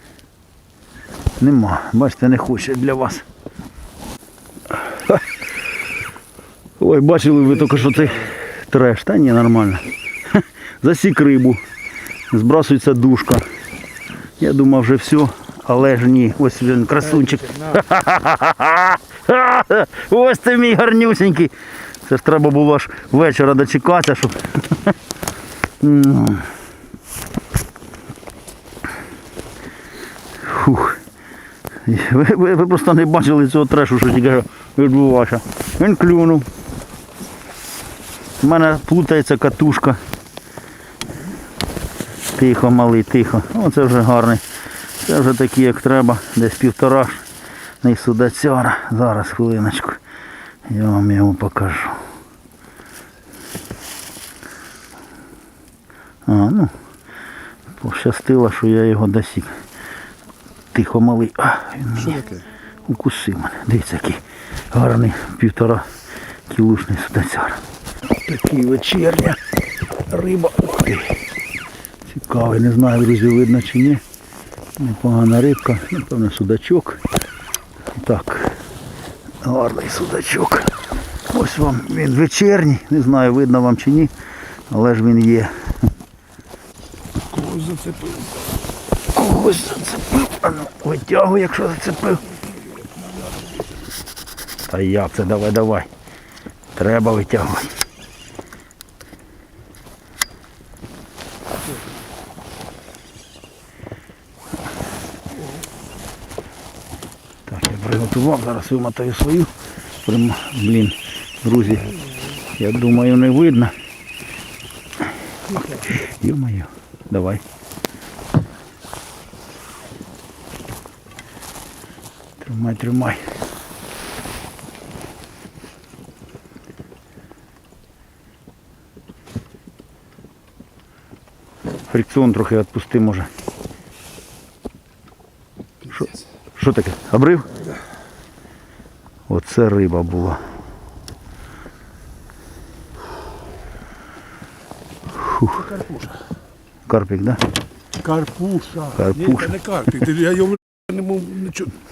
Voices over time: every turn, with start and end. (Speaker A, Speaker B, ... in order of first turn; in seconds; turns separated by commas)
Speaker A: 1.4-3.2, Speaker A: 4.7-5.4, Speaker A: 6.8-11.6, Speaker A: 12.3-13.4, Speaker A: 14.4-24.9, Speaker A: 25.8-26.5, Speaker A: 30.4-31.0, Speaker A: 31.9-36.5, Speaker A: 38.4-40.0, Speaker A: 42.4-44.4, Speaker A: 45.0-47.2, Speaker A: 47.8-50.0, Speaker A: 50.7-52.0, Speaker A: 56.3-56.7, Speaker A: 57.8-59.6, Speaker A: 60.7-62.2, Speaker B: 62.1-62.4, Speaker A: 62.8-65.9, Speaker A: 66.5-69.4, Speaker A: 70.1-71.2, Speaker A: 72.1-74.0, Speaker A: 74.8-77.0, Speaker A: 78.0-78.6, Speaker A: 79.4-80.7, Speaker A: 81.3-84.1, Speaker A: 84.7-85.5, Speaker B: 87.3-88.4, Speaker A: 89.1-92.3, Speaker B: 92.8-93.6, Speaker A: 94.7-95.9, Speaker A: 96.8-97.8, Speaker A: 107.5-109.5, Speaker A: 110.0-113.7, Speaker A: 115.5-117.4, Speaker A: 122.4-123.2, Speaker A: 131.9-133.3, Speaker A: 135.9-137.5, Speaker A: 139.3-140.4, Speaker A: 145.1-145.6, Speaker B: 145.6-146.2, Speaker A: 146.9-147.4, Speaker B: 148.0-151.7, Speaker A: 148.9-149.6